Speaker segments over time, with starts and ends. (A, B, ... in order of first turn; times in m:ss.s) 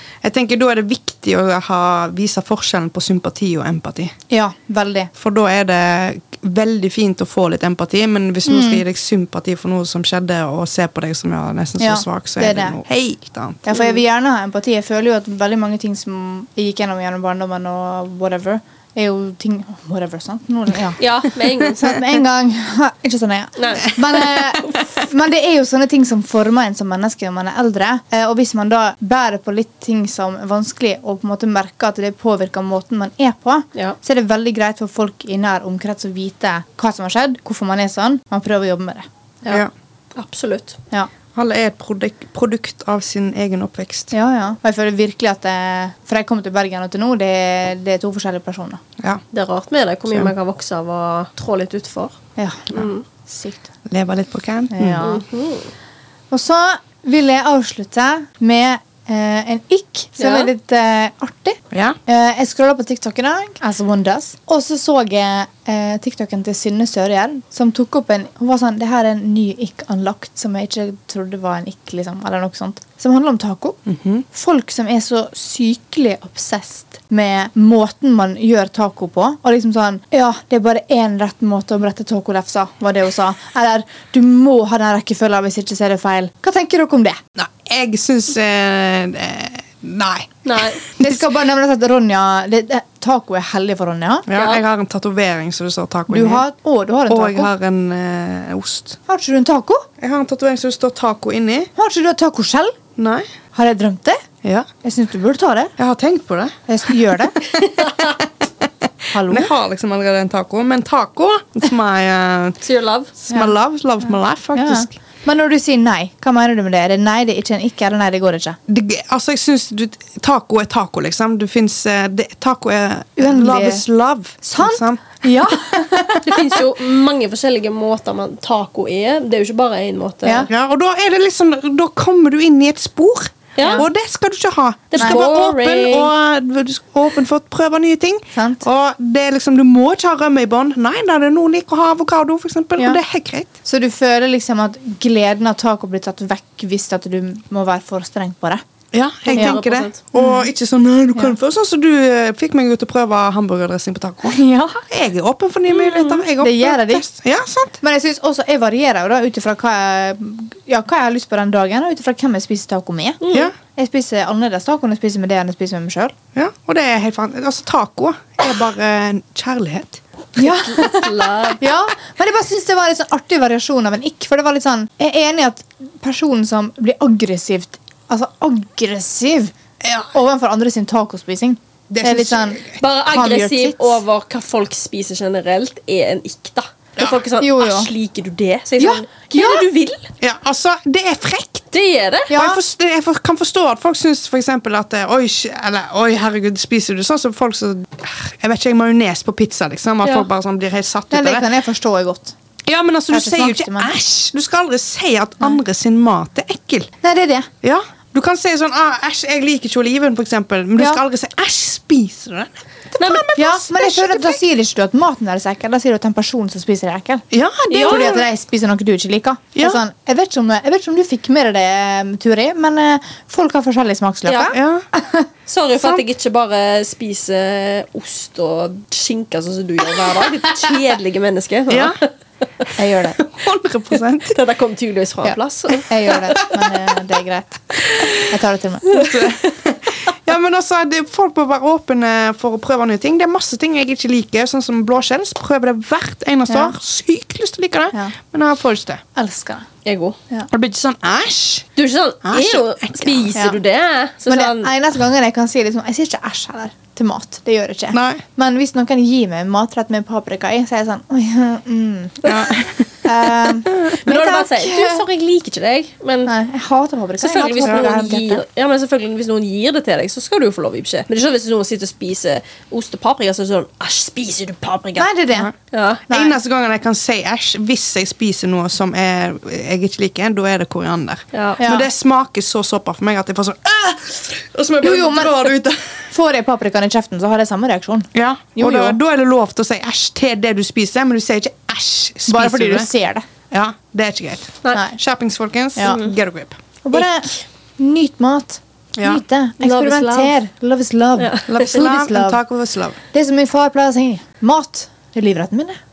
0:00.2-0:04.1 A
0:04.3-0:05.1 B
0:05.2-0:13.6 A
0:08.4-0:08.8 B
0:11.8-0:12.8 B
0:13.6-0:39.0 B
0:21.0-0:22.0 C
0:23.6-0:24.8 C
0:39.4-0:40.8 C
0:41.3-0:44.1 A
0:44.1-0:48.8 B
0:49.3-0:52.2 C
0:52.4-0:53.7 B
0:52.7-0:53.0 C
0:53.9-0:55.0 A
0:54.7-0:55.2 B
0:55.0-0:55.7 C
0:56.3-1:13.8 B
1:00.2-1:00.5 C
1:01.7-1:02.0 A
1:13.8-1:14.2 A
1:14.3-1:27.2 B
1:27.4-1:31.2 A
1:30.4-1:30.8 C
1:31.0-1:34.3 B
1:34.3-1:36.4 A
1:34.3-1:34.6 C
1:36.1-1:37.5 B
1:37.1-1:39.0 A
1:39.1-1:39.8 B
1:40.0-1:41.7 A
1:41.8-1:42.8 B
1:43.0-1:43.3 A
1:43.5-1:44.2 B
1:44.8-1:45.7 B
1:45.8-1:46.6 A
1:46.7-1:47.9 B
1:48.6-1:52.6 A
1:49.1-1:49.5 B
1:52.6-1:53.1 C
1:53.2-1:54.9 A
1:53.3-1:53.5 B
1:54.5-1:58.6 B
1:58.7-2:05.2 A
2:03.2-2:03.8 B
2:04.4-2:06.6 B
2:06.2-2:10.5 C
2:10.2-2:10.5 B
2:10.5-2:23.5 A
2:13.6-2:13.8 C
2:13.6-2:13.8 B
2:14.9-2:16.1 C
2:18.3-2:18.6 B
2:23.6-2:28.6 B
2:28.9-2:37.8 A
2:29.2-2:30.0 C
2:30.2-2:30.5 B
2:34.2-2:34.8 B
2:35.7-2:36.2 C
2:36.4-2:37.0 B
2:37.8-2:46.1 B
2:43.2-2:43.5 C
2:43.3-2:43.5 A
2:46.3-2:50.0 A
2:50.4-2:59.5 B
2:50.4-2:51.6 C
2:59.8-3:00.1 A
3:00.1-3:04.0 B
3:01.9-3:02.8 A
3:02.8-3:10.1 C
3:07.4-3:07.9 B
3:08.8-3:09.6 B
3:10.2-3:11.8 A
3:11.7-3:12.4 C
3:12.3-3:12.6 B
3:12.3-3:21.5 A
3:21.1-3:22.3 B
3:22.6-3:26.9 A
3:23.1-3:23.9 B
3:27.0-3:27.5 B
3:27.6-3:34.4 A
3:33.0-3:33.4 C
3:33.3-3:45.3 B
3:37.3-3:38.2 A
3:37.7-3:38.1 C
3:39.6-3:39.8 A
3:44.2-3:44.5 C
3:44.5-3:44.9 A
3:45.5-3:52.1 C
3:51.7-3:52.0 A
3:52.8-3:53.2 B
3:53.2-3:54.4 A
3:54.3-3:56.1 C
3:55.2-3:59.4 B
3:58.9-4:09.0 A
4:06.5-4:06.8 B
4:09.1-4:09.7 B
4:09.8-4:10.2 C
4:10.5-4:11.7 A
4:11.8-4:14.7 C
4:12.2-4:13.3 A
4:14.2-4:25.0 B
4:17.9-4:18.2 A
4:22.2-4:22.9 A
4:23.7-4:23.9 A
4:24.0-4:26.3 C
4:26.2-4:28.4 B
4:27.2-4:35.1 C
4:35.0-4:35.5 B
4:35.7-4:36.0 C
4:36.1-4:36.4 B
4:36.1-4:45.9 A
4:41.3-4:41.6 C
4:41.6-4:41.9 B
4:44.8-4:45.5 B
4:46.1-4:49.0 B
4:48.1-4:52.9 A
4:52.3-4:53.2 B
4:53.5-4:56.6 A
4:54.7-4:55.0 B
4:55.8-4:56.0 B
4:55.8-4:56.1 C
4:56.8-5:02.4 B
4:56.9-4:57.4 C
4:58.9-4:59.2 A
4:59.6-5:00.3 C
5:01.2-5:01.6 C
5:01.5-5:03.0 A
5:03.1-5:05.8 B